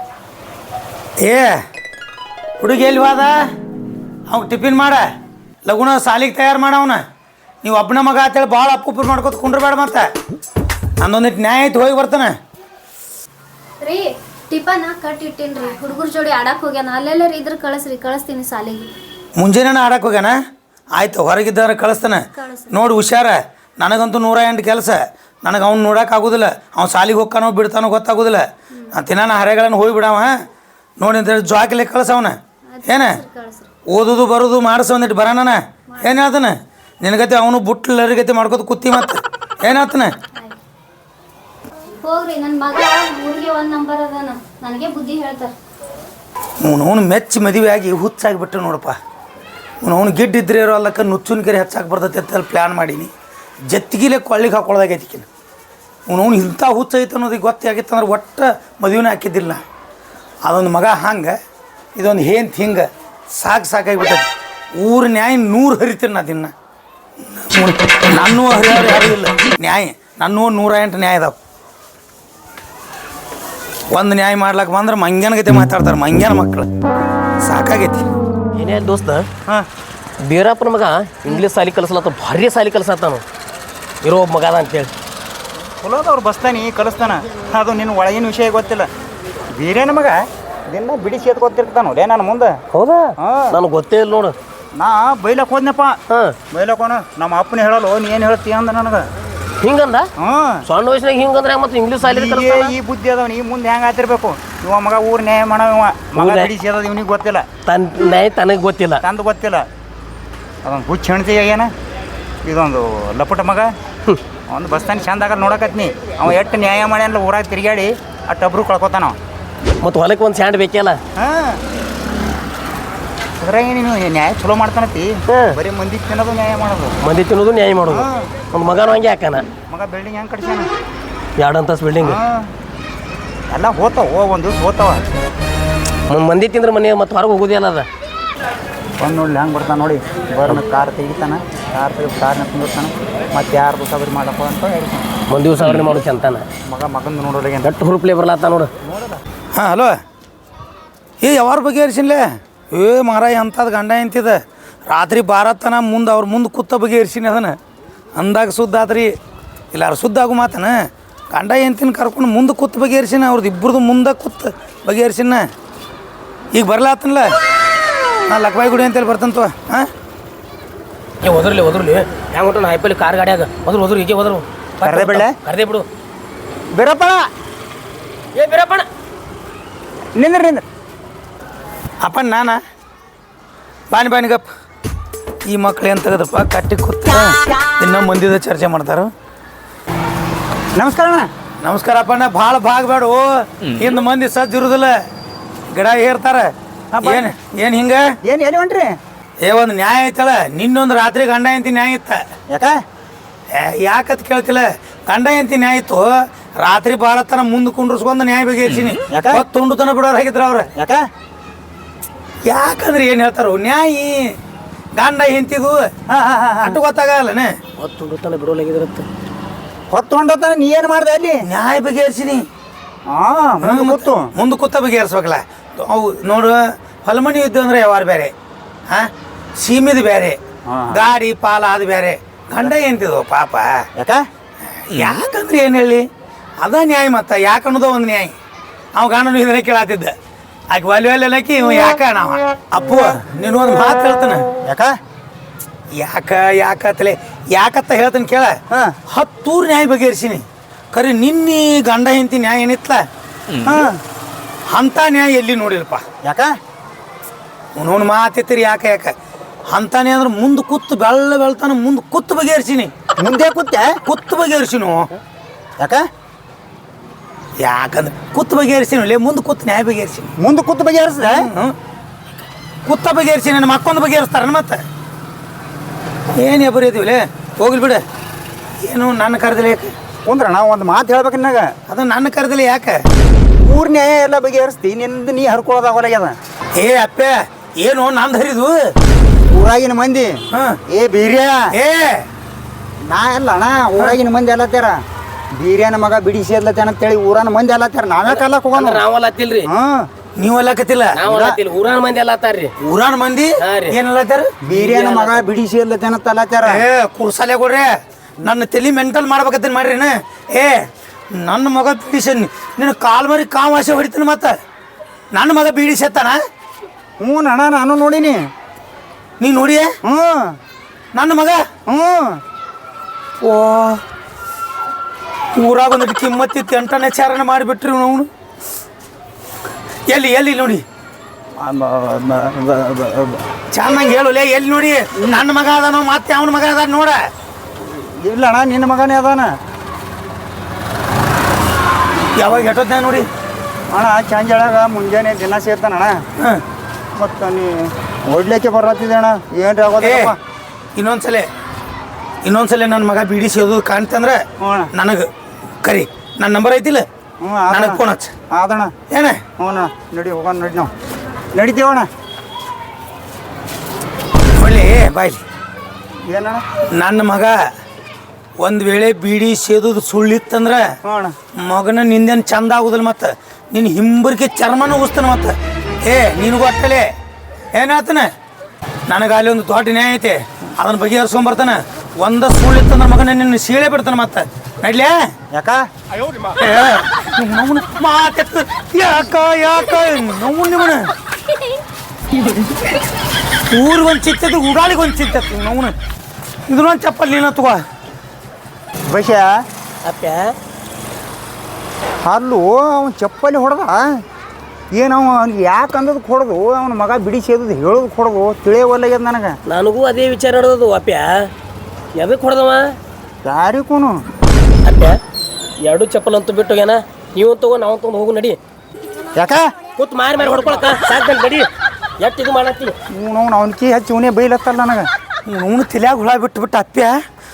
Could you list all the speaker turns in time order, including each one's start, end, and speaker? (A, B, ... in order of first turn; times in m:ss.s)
0:01.2-0:01.6 A
0:02.6-0:03.4 A
0:04.3-0:05.0 A
0:05.6-0:07.0 A
0:07.6-0:10.1 A
0:11.0-0:12.3 A
0:13.8-0:18.9 B
0:19.4-0:20.4 A
0:20.9-0:28.4 A
0:22.4-0:22.8 B
0:29.0-0:30.4 A
0:31.0-0:33.2 A
0:32.7-0:33.7 B
0:33.9-0:40.1 A
0:35.9-0:36.2 B
0:42.0-0:45.5 B
0:46.6-0:49.0 A
0:49.8-0:53.1 A
0:53.7-0:55.3 A
0:56.1-0:59.6 A
1:00.4-1:01.4 A
1:02.0-1:06.5 A
1:07.2-1:11.3 A
1:13.9-1:16.7 A
1:17.4-1:18.0 A
1:18.5-1:19.3 C
1:20.2-1:23.2 C
1:24.0-1:24.9 C
1:25.8-1:28.9 D
1:29.5-1:32.6 D
1:32.7-1:34.3 C
1:33.2-1:33.6 D
1:34.8-1:36.0 D
1:36.1-1:36.3 C
1:36.5-1:39.1 D
1:39.6-1:40.1 C
1:40.2-1:40.6 D
1:40.6-1:42.7 C
1:42.0-1:47.5 D
1:46.1-1:46.5 C
1:47.6-1:49.0 C
1:49.0-1:49.6 D
1:50.6-1:51.7 D
1:52.4-1:53.7 D
1:54.5-1:59.2 D
1:59.8-2:01.0 C
2:01.2-2:01.6 D
2:03.4-2:07.0 D
2:07.0-2:09.5 C
2:07.9-2:08.3 D
2:09.7-2:10.7 D
2:11.4-2:12.2 C
2:12.0-2:12.5 D
2:13.5-2:15.0 D
2:16.1-2:17.9 C
2:19.0-2:25.1 D
2:25.3-2:26.4 C
2:26.6-2:27.7 D
2:27.6-2:28.7 C
2:28.8-2:29.2 D
2:29.5-2:30.0 A
2:31.2-2:37.6 A
2:38.2-2:39.1 A
2:39.7-2:45.4 A
2:46.5-2:47.3 A
2:48.3-2:49.9 A
2:51.2-2:55.8 C
2:54.8-2:55.4 D
2:56.7-2:57.3 D
2:58.3-2:58.9 C
3:00.2-3:00.6 D
3:02.0-3:02.6 A
3:03.9-3:04.4 A
3:05.5-3:09.1 A
3:10.8-3:11.3 D
3:11.6-3:15.0 A
3:15.7-3:16.5 A
3:16.9-3:17.3 D
3:17.0-3:18.0 A
3:18.2-3:19.0 D
3:19.4-3:22.2 A
3:22.5-3:22.8 D
3:23.5-3:30.7 A
3:29.1-3:29.4 D
3:30.8-3:31.0 D
3:32.4-3:34.3 A
3:35.0-3:35.9 A
3:36.1-3:36.8 D
3:36.7-3:37.5 A
3:37.8-3:39.1 C
3:39.9-3:41.4 D
3:41.4-3:42.4 A
3:43.1-3:44.3 D
3:43.6-3:48.3 A
3:48.9-3:50.4 A
3:50.7-3:51.0 D
3:50.9-3:53.8 A
3:54.0-3:54.2 D
3:54.7-3:56.0 A
3:56.6-3:58.3 A
3:58.9-4:00.1 A
4:00.7-4:04.5 A
4:04.6-4:04.9 D
4:06.0-4:13.0 A
4:13.6-4:14.0 D
4:14.7-4:16.0 A
4:16.2-4:16.5 D
4:17.7-4:19.1 A
4:19.7-4:22.9 A
4:23.2-4:24.0 D
4:24.0-4:25.1 A
4:25.8-4:26.0 D
4:27.6-4:30.3 A
4:30.4-4:31.5 D
4:31.2-4:31.7 A
4:32.8-4:34.8 A
4:36.4-4:38.0 A
4:38.8-4:39.9 A
4:40.2-4:41.7 D
4:41.9-4:43.0 A
4:43.6-4:46.4 D
4:46.7-4:48.8 A
4:49.5-4:50.4 D
4:50.5-4:50.8 A
4:50.9-4:51.6 D
4:51.7-4:52.2 A
4:53.1-4:55.0 D
4:55.6-4:59.0 D
4:58.2-4:59.7 C
4:59.6-5:00.1 D
5:00.4-5:01.2 A
5:01.1-5:02.7 C
5:01.2-5:01.6 D
5:02.8-5:04.5 A
5:03.6-5:04.0 C
5:04.6-5:06.8 D
5:04.7-5:05.5 C
5:06.6-5:07.9 A
5:08.4-5:10.8 A
5:11.3-5:14.5 A
5:15.3-5:16.4 A
5:17.2-5:18.4 D
5:19.4-5:19.9 A
5:20.0-5:20.6 D
5:21.1-5:21.6 A
5:21.9-5:22.4 D
5:23.4-5:24.0 A
5:25.6-5:28.3 A
5:30.1-5:30.8 A
5:31.6-5:33.4 D
5:33.7-5:37.2 A
5:37.8-5:39.6 D
5:42.4-5:43.2 A
5:43.9-5:46.2 D
5:46.4-5:46.6 A
5:47.2-5:50.4 D
5:50.0-5:50.3 A
5:51.0-5:51.5 A
5:52.4-5:55.3 A
5:54.6-5:54.9 D
5:55.8-5:57.0 A
5:57.4-5:58.9 D
5:57.7-5:58.3 A
5:59.1-5:59.4 A
5:59.6-6:00.9 D
6:01.5-6:02.1 D
6:04.6-6:05.4 A
6:06.3-6:06.6 D
6:07.0-6:07.5 A
6:08.6-6:10.8 A
6:11.0-6:11.4 D
6:11.6-6:17.0 A
6:17.7-6:18.3 A
6:19.1-6:25.1 A
6:25.5-6:25.8 D
6:26.6-6:31.1 A
6:33.7-6:35.9 A
6:36.7-6:37.8 A
6:39.1-6:39.5 D
6:40.0-6:40.5 C
6:42.2-6:44.2 D
6:44.9-6:49.6 D
6:49.6-6:51.5 C
6:52.1-6:53.0 C
6:53.4-6:54.2 D
6:54.8-6:55.2 C
6:55.8-6:58.6 C
6:59.3-6:59.7 D
7:00.0-7:01.7 C
7:02.2-7:02.9 C
7:03.1-7:05.1 D
7:05.4-7:07.2 A